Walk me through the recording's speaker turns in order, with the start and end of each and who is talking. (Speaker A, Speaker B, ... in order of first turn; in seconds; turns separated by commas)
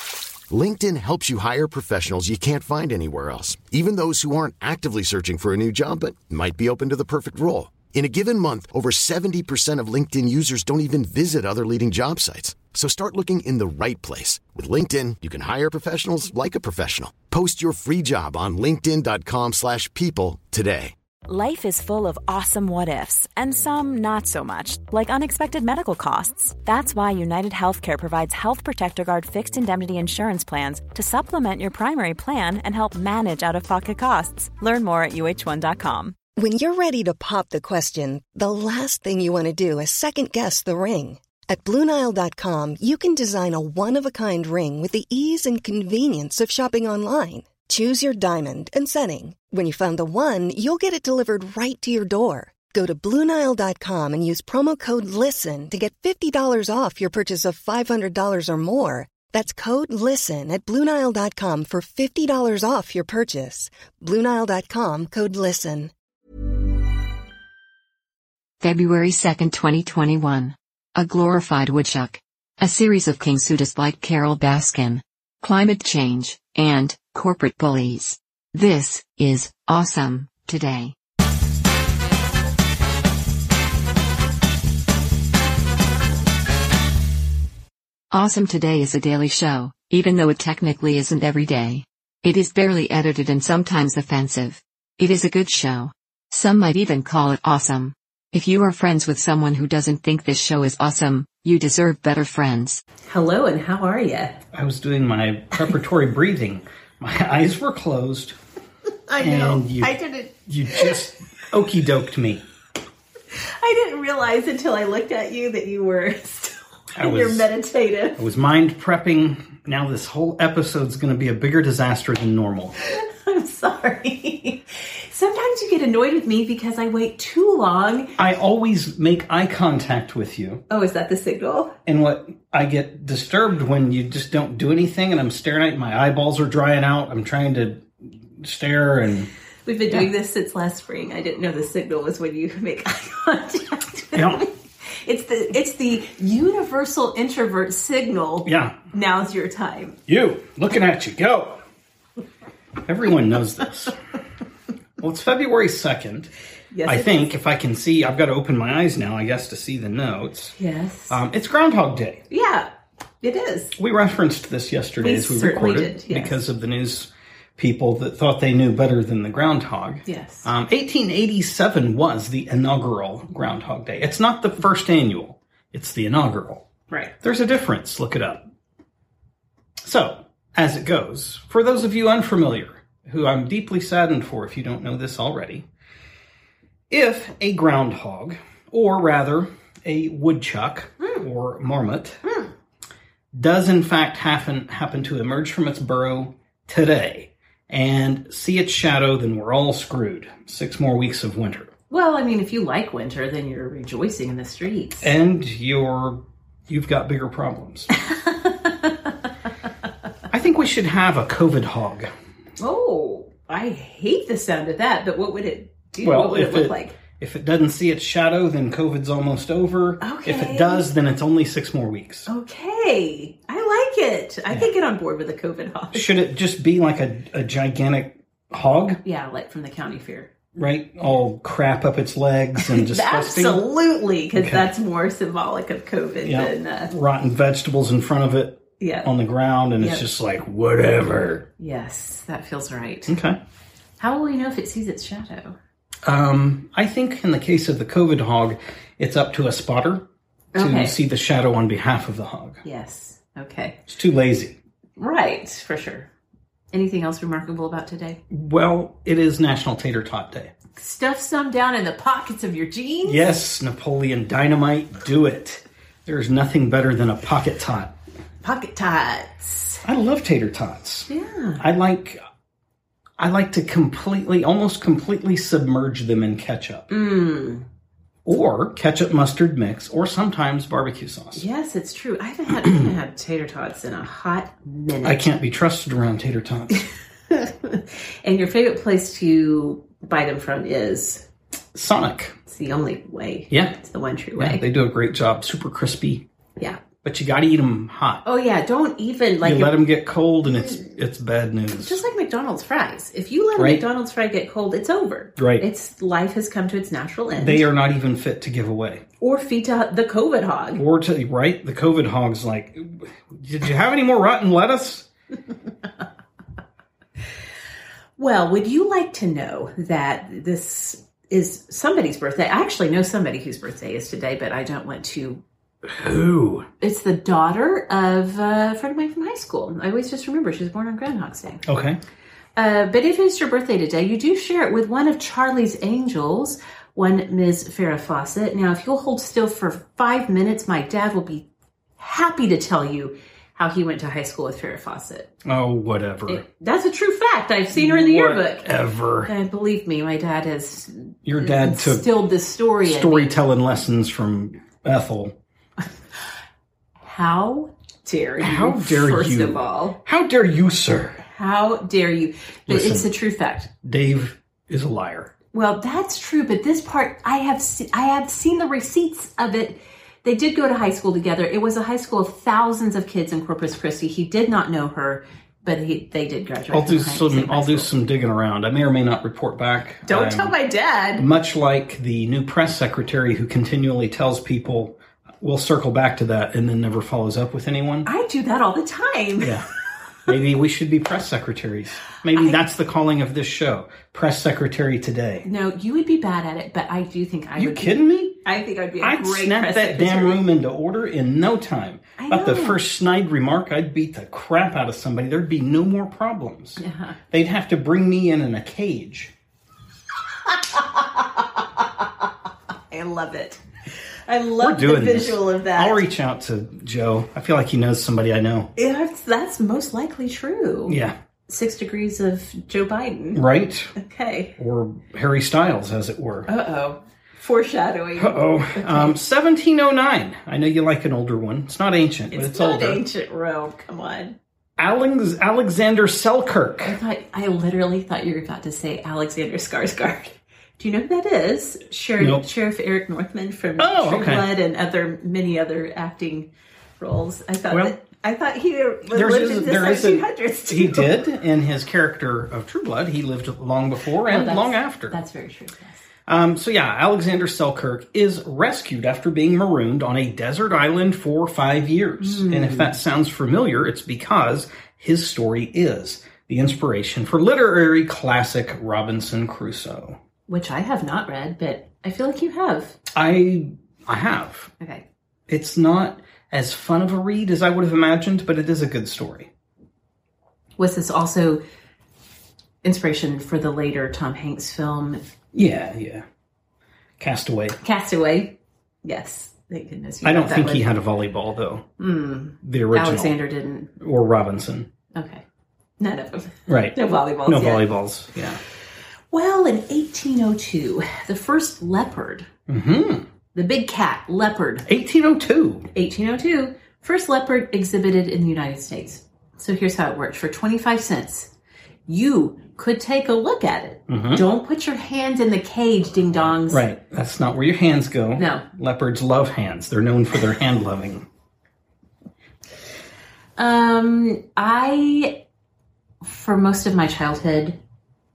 Speaker A: 0.5-20.9, Speaker B: 21.3-36.1, Speaker C: 36.4-65.9, Speaker D: 68.6-80.9, Speaker D: 88.1-102.8, Speaker E: 103.1-104.4, Speaker F: 104.5-108.4, Speaker E: 109.1-110.9, Speaker F: 109.2-109.9, Speaker F: 110.5-112.4, Speaker E: 113.3-118.2, Speaker F: 117.0-117.5, Speaker F: 118.2-122.8, Speaker E: 122.8-128.1, Speaker F: 128.2-130.6, Speaker E: 130.7-131.7, Speaker F: 131.8-139.3, Speaker E: 139.7-144.5, Speaker F: 144.1-144.4, Speaker E: 145.0-150.0, Speaker F: 148.4-148.8, Speaker F: 150.1-151.6, Speaker F: 152.8-154.0, Speaker F: 155.0-156.3, Speaker E: 156.7-157.3, Speaker F: 156.8-160.5, Speaker E: 160.6-161.2, Speaker F: 161.1-162.2, Speaker E: 162.3-162.7, Speaker E: 163.2-163.7, Speaker F: 163.8-176.7, Speaker E: 165.0-166.4, Speaker E: 170.1-170.5, Speaker F: 177.2-178.4, Speaker F: 179.8-185.7, Speaker F: 186.9-192.2, Speaker E: 192.2-192.5, Speaker F: 193.3-201.7, Speaker E: 201.9-205.1, Speaker F: 205.0-207.9, Speaker E: 208.1-208.9, Speaker F: 210.3-212.1, Speaker E: 212.6-216.9, Speaker F: 216.0-222.3, Speaker E: 220.0-220.9, Speaker E: 222.3-226.1, Speaker F: 225.9-229.0, Speaker E: 229.0-230.5, Speaker F: 230.6-233.6, Speaker E: 232.6-236.9, Speaker F: 234.3-234.7, Speaker F: 236.2-241.4, Speaker E: 238.8-239.1, Speaker E: 239.8-240.0, Speaker E: 241.6-243.1, Speaker F: 243.1-243.4, Speaker E: 244.0-245.6, Speaker F: 246.0-250.1, Speaker E: 250.5-250.9, Speaker F: 250.6-252.6, Speaker E: 252.6-253.8, Speaker F: 253.9-254.6, Speaker E: 255.0-256.1, Speaker E: 256.7-258.2, Speaker F: 258.3-260.5, Speaker E: 260.8-263.3, Speaker F: 263.0-267.9, Speaker E: 268.4-269.8, Speaker F: 269.8-271.1, Speaker E: 271.1-271.6, Speaker F: 271.6-272.2, Speaker F: 273.2-276.9, Speaker E: 276.9-277.6, Speaker F: 278.2-281.4, Speaker E: 281.3-285.3, Speaker F: 285.0-286.8, Speaker E: 287.3-291.2, Speaker F: 291.7-292.3, Speaker E: 292.4-294.6, Speaker F: 293.5-293.8, Speaker F: 294.4-296.2, Speaker F: 297.0-298.2, Speaker E: 298.2-299.7, Speaker F: 299.4-302.0, Speaker E: 301.8-307.6, Speaker F: 303.6-303.8, Speaker F: 305.4-305.6, Speaker F: 307.4-309.0, Speaker E: 309.2-310.8, Speaker F: 310.8-315.1, Speaker E: 318.2-325.4, Speaker F: 325.9-326.7, Speaker E: 326.8-331.6, Speaker F: 331.7-332.0, Speaker E: 332.6-341.5, Speaker E: 342.0-345.3, Speaker F: 345.4-346.4, Speaker E: 346.3-348.7, Speaker F: 347.7-349.3, Speaker E: 349.3-353.4, Speaker F: 351.2-352.1, Speaker F: 352.8-355.3, Speaker E: 357.0-360.0, Speaker F: 358.4-361.2, Speaker E: 361.2-363.7, Speaker F: 362.7-363.1, Speaker F: 363.8-365.3, Speaker E: 365.5-377.9, Speaker F: 376.7-380.5, Speaker E: 380.1-381.2, Speaker F: 381.2-388.1, Speaker E: 388.1-389.6, Speaker F: 389.4-389.6, Speaker F: 390.2-395.4, Speaker E: 395.4-400.4, Speaker F: 397.6-398.4, Speaker F: 399.0-409.3, Speaker E: 402.2-402.8, Speaker E: 406.8-407.2, Speaker E: 410.6-411.2, Speaker E: 412.9-413.6, Speaker E: 414.3-416.1, Speaker F: 414.6-418.7, Speaker E: 418.8-420.9, Speaker F: 420.9-421.1, Speaker E: 421.5-423.4, Speaker F: 423.3-423.9, Speaker E: 423.9-424.5, Speaker F: 424.6-426.5, Speaker E: 426.5-429.1, Speaker F: 428.2-433.0, Speaker E: 432.3-434.4, Speaker F: 434.8-436.9, Speaker E: 436.8-451.1, Speaker F: 442.2-442.4, Speaker F: 443.8-444.5, Speaker F: 447.7-448.0, Speaker F: 449.1-455.2, Speaker E: 454.2-456.1, Speaker F: 456.3-470.2, Speaker E: 462.2-462.9, Speaker E: 470.5-473.0, Speaker F: 473.1-474.7, Speaker E: 474.8-475.0, Speaker F: 475.5-479.5, Speaker E: 480.8-481.6, Speaker E: 482.8-485.2, Speaker F: 485.5-486.2, Speaker F: 487.2-487.8, Speaker E: 487.8-490.9, Speaker F: 490.2-491.9, Speaker E: 492.0-493.9, Speaker F: 492.6-493.4, Speaker F: 494.0-494.9, Speaker E: 495.1-495.4, Speaker E: 496.0-497.8, Speaker F: 496.7-498.6, Speaker E: 499.3-502.5, Speaker F: 502.7-503.2, Speaker E: 503.5-504.9, Speaker F: 504.9-505.9, Speaker E: 505.9-511.5, Speaker E: 512.1-516.8, Speaker F: 514.1-514.4, Speaker F: 516.7-521.3, Speaker E: 518.4-518.6, Speaker E: 523.6-525.4, Speaker E: 526.2-527.8